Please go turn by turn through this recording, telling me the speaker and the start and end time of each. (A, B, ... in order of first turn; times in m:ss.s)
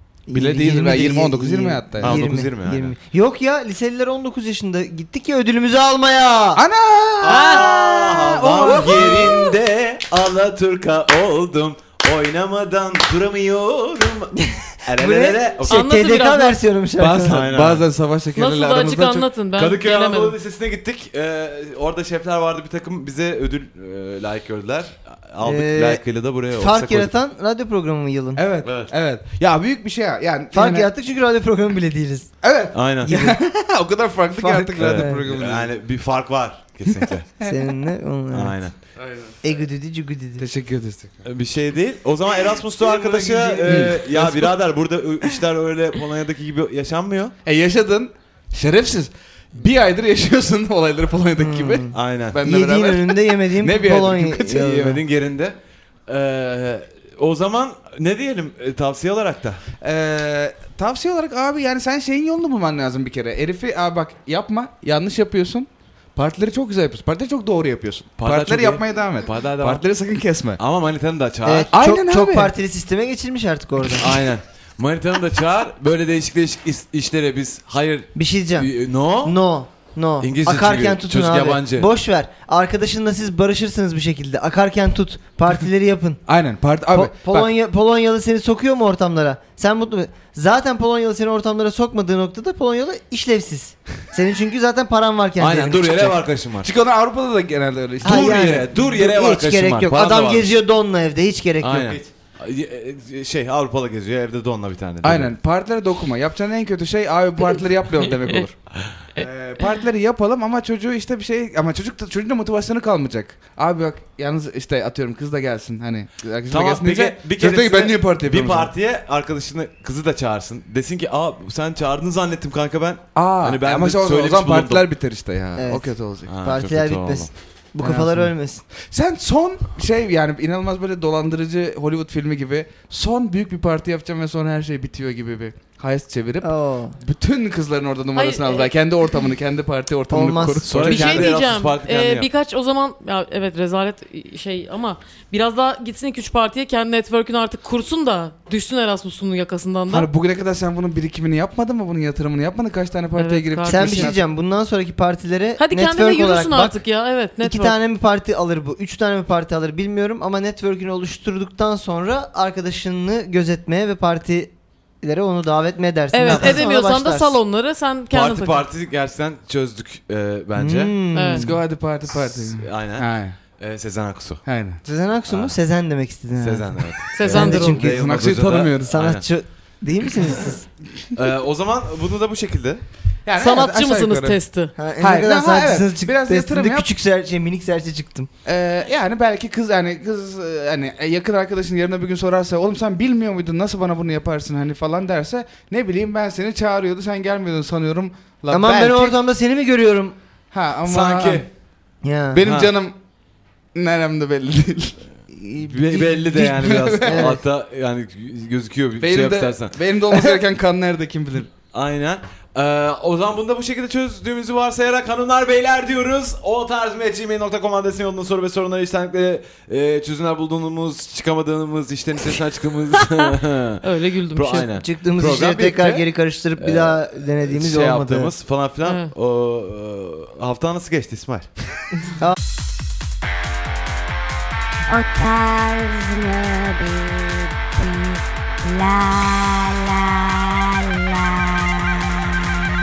0:00.3-0:02.5 A
0:00.3-0:06.6 B
0:02.0-0:03.0 C
0:06.6-0:09.5 A
0:07.2-0:15.9 C
0:07.3-0:08.0 B
0:08.7-0:09.5 B
0:15.0-0:17.4 B
0:15.7-0:16.6 D
0:17.0-0:19.3 A
0:17.2-0:17.8 C
0:18.3-0:20.3 D
0:19.6-0:27.1 C
0:25.4-0:26.0 B
0:26.6-0:28.4 B
0:28.3-0:30.9 A
0:28.6-0:28.9 C
0:30.5-0:32.4 B
0:32.4-0:35.7 A
0:32.7-0:33.2 C
0:33.0-0:33.4 B
0:34.4-0:35.2 B
0:34.8-0:37.3 C
0:36.9-0:37.7 A
0:37.4-0:38.6 B
0:38.3-0:38.8 C
0:39.0-0:39.4 A
0:39.4-0:40.4 B
0:40.4-0:41.1 A
0:41.2-0:47.3 C
0:42.8-0:44.6 A
0:47.4-0:55.0 A
0:51.4-0:55.0 B
0:51.9-0:52.4 C
0:54.5-0:55.5 C
0:56.1-0:59.6 C
0:59.8-1:10.6 A
1:08.2-1:09.8 C
1:10.6-1:11.7 C
1:11.4-1:14.2 B
1:11.7-1:12.5 A
1:13.9-1:19.4 C
1:18.2-1:18.7 B
1:19.2-1:26.2 B
1:20.2-1:21.9 C
1:26.3-1:27.5 A
1:26.9-1:36.1 B
1:35.4-1:36.7 C
1:36.6-1:38.6 A
1:38.0-1:42.0 B
1:38.0-1:40.6 C
1:41.6-1:45.3 C
1:45.0-1:48.5 A
1:49.2-1:58.7 A
1:56.5-2:04.8 C
2:03.1-2:06.3 A
2:05.6-2:05.9 B
2:06.3-2:07.3 C
2:06.4-2:08.6 B
2:07.8-2:21.3 A
2:16.4-2:17.0 B
2:18.1-2:18.7 D
2:20.1-2:20.9 B
2:20.6-2:22.3 C
2:20.9-2:30.1 D
2:29.9-2:34.2 A
2:33.2-2:34.1 D
2:33.7-2:36.8 B
2:35.6-2:37.8 D
2:37.4-2:47.4 B
2:46.1-2:48.6 D
2:46.3-2:46.6 C
2:48.1-2:50.9 C
2:50.6-2:51.6 B
2:51.1-2:51.4 D
2:51.3-2:53.4 A
2:52.2-2:54.4 C
2:54.4-2:54.8 A
2:54.8-2:58.2 B
2:55.3-2:55.6 C
2:56.4-2:59.3 C
2:57.1-2:57.8 D
2:57.7-2:59.0 A
2:58.8-3:00.6 B
3:01.1-3:02.8 C
3:03.2-3:04.4 A
3:03.4-3:04.7 D
3:04.8-3:08.3 B
3:05.0-3:06.9 A
3:08.4-3:19.2 A
3:18.5-3:20.2 B
3:20.5-3:21.4 A
3:20.9-3:21.5 C
3:22.0-3:22.4 B
3:22.3-3:23.0 A
3:22.4-3:22.7 C
3:23.7-3:27.4 A
3:25.6-3:27.4 B
3:25.7-3:30.4 C
3:29.0-3:31.5 A
3:31.7-3:43.8 C
3:43.8-3:44.7 D
3:44.3-3:46.0 C
3:44.8-3:48.3 B
3:46.6-3:51.5 C
3:48.8-3:49.1 D
3:54.9-4:02.3 E